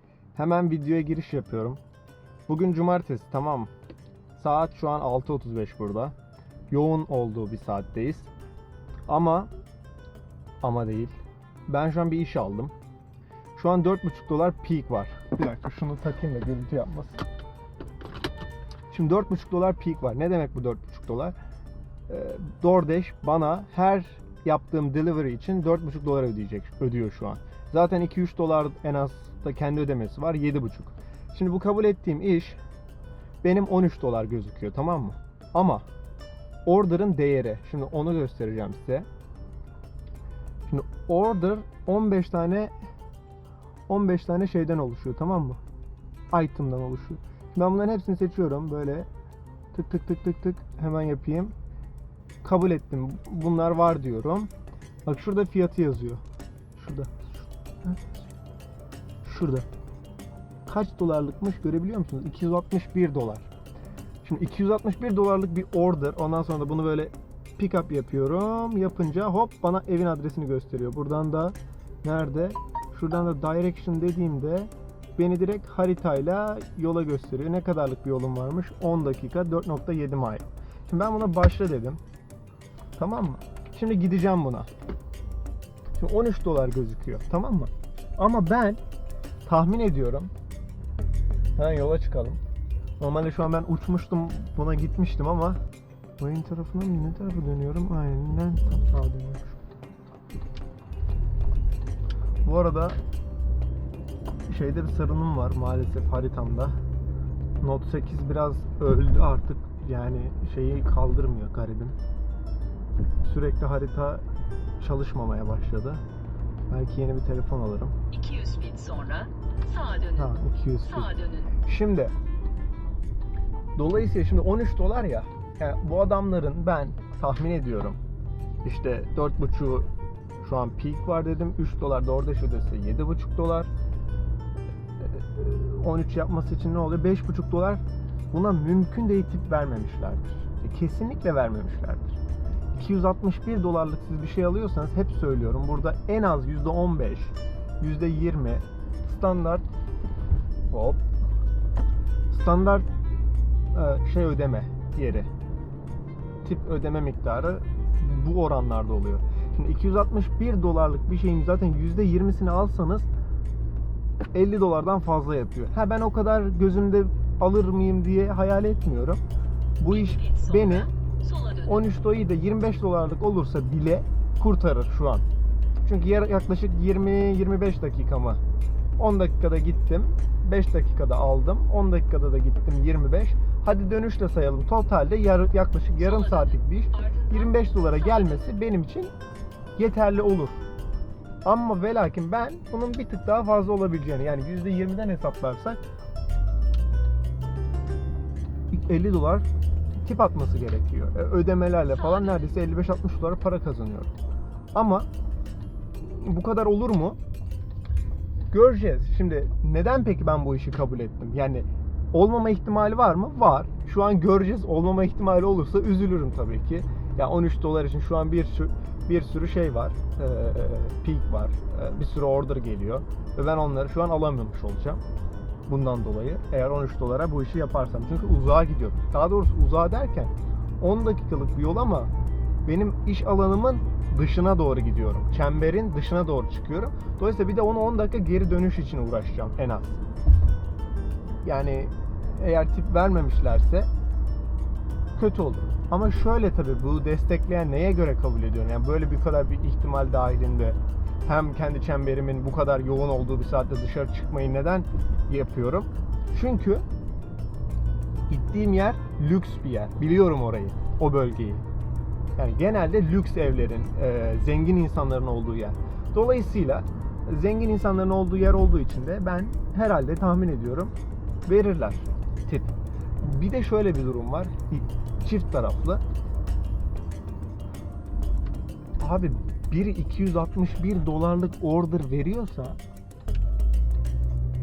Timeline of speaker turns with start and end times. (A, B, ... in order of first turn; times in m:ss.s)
0:00.4-0:01.8 A
0:02.5-0:03.7 A
0:04.4-0:06.2 A
0:06.7-0:08.3 A
0:09.1-0:09.5 A
0:10.6-0:11.2 A
0:11.7-0:12.7 A
0:13.6-0:17.2 A
0:18.9-0:21.4 A
0:22.1-0:32.6 A
0:33.4-0:35.8 A
0:36.7-0:39.1 A
0:40.7-0:42.7 A
0:43.9-0:45.6 A
0:46.3-0:49.1 A
0:49.7-0:51.6 A
0:52.4-0:54.5 A
0:55.0-0:56.2 A
0:56.8-0:58.2 A
0:59.2-0:59.7 A
1:00.7-1:03.5 A
1:04.2-1:22.0 A
1:23.0-1:24.7 A
1:26.0-1:28.8 A
1:29.4-1:30.3 A
1:31.6-1:32.4 A
1:33.0-1:35.6 A
1:36.2-1:39.6 A
1:42.4-1:43.0 A
1:44.5-1:46.8 A
1:47.6-1:52.0 A
1:53.2-1:54.2 A
1:54.8-1:56.0 A
1:56.7-1:58.0 A
1:58.1-2:00.3 B
2:00.2-2:02.1 A
2:00.9-2:01.5 B
2:03.8-2:08.0 A
2:08.6-2:09.9 A
2:10.4-2:13.7 A
2:15.0-2:22.2 A
2:22.7-2:29.6 A
2:30.7-2:31.0 A
2:32.3-2:32.9 A
2:33.7-2:35.3 A
2:36.4-2:43.1 A
2:44.3-2:49.2 A
2:49.8-2:50.9 A
2:50.0-2:51.7 B
2:51.6-2:55.3 A
2:55.8-2:58.4 A
2:59.0-3:09.1 A
3:06.0-3:08.4 B
3:09.8-3:10.6 A
3:11.4-3:15.8 A
3:18.7-3:19.5 A
3:20.0-3:24.1 A
3:21.9-3:22.4 B
3:24.7-3:25.1 A
3:26.0-3:27.2 A
3:28.5-3:45.0 A
3:45.7-3:52.1 A
3:52.6-4:00.0 A
4:01.4-4:03.9 A
4:05.2-4:16.8 A
4:18.3-4:21.6 A
4:22.4-4:30.9 A
4:31.5-4:36.0 A
4:39.0-4:42.8 A